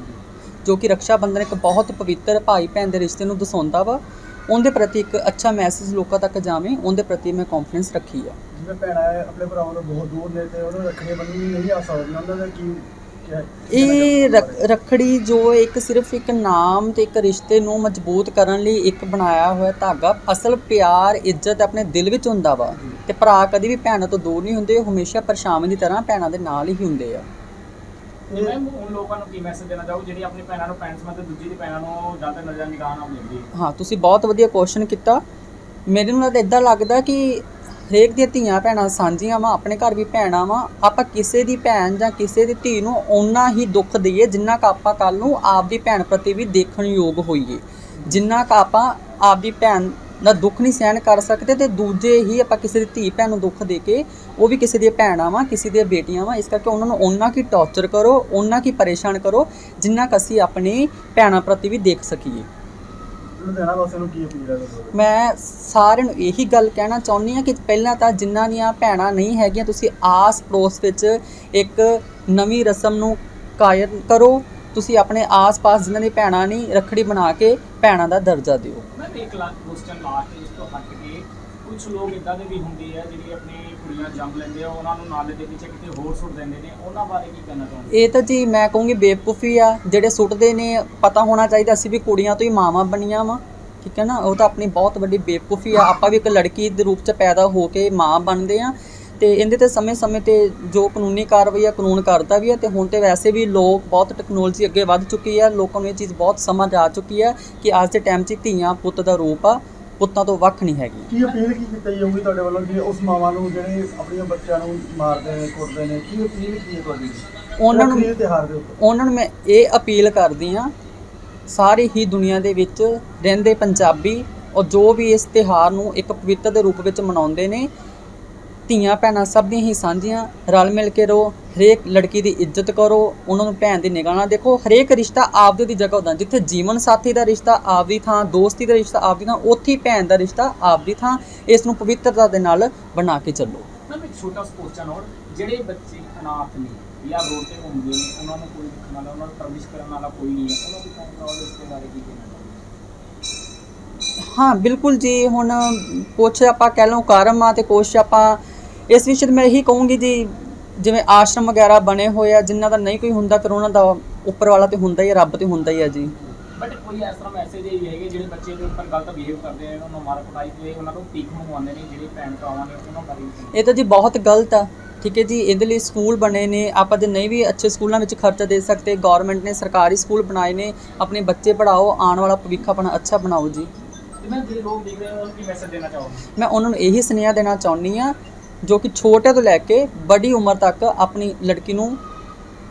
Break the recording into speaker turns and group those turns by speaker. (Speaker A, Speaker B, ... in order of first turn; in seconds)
Speaker A: 0.6-8.4, 13.7-27.2, 33.5-35.2, 35.9-62.5, 64.9-78.9, 87.9-111.1, 117.6-118.1, 118.8-120.7, 121.5-127.7, 128.7-143.7, 154.2-158.4, 158.9-166.1, 173.5-183.7, 186.3-192.0
Speaker B: 8.5-14.7, 28.3-28.6, 63.4-65.0, 111.1-118.8
Speaker C: 28.3-33.5, 78.9-87.9, 143.9-152.7, 166.2-173.6, 184.2-186.3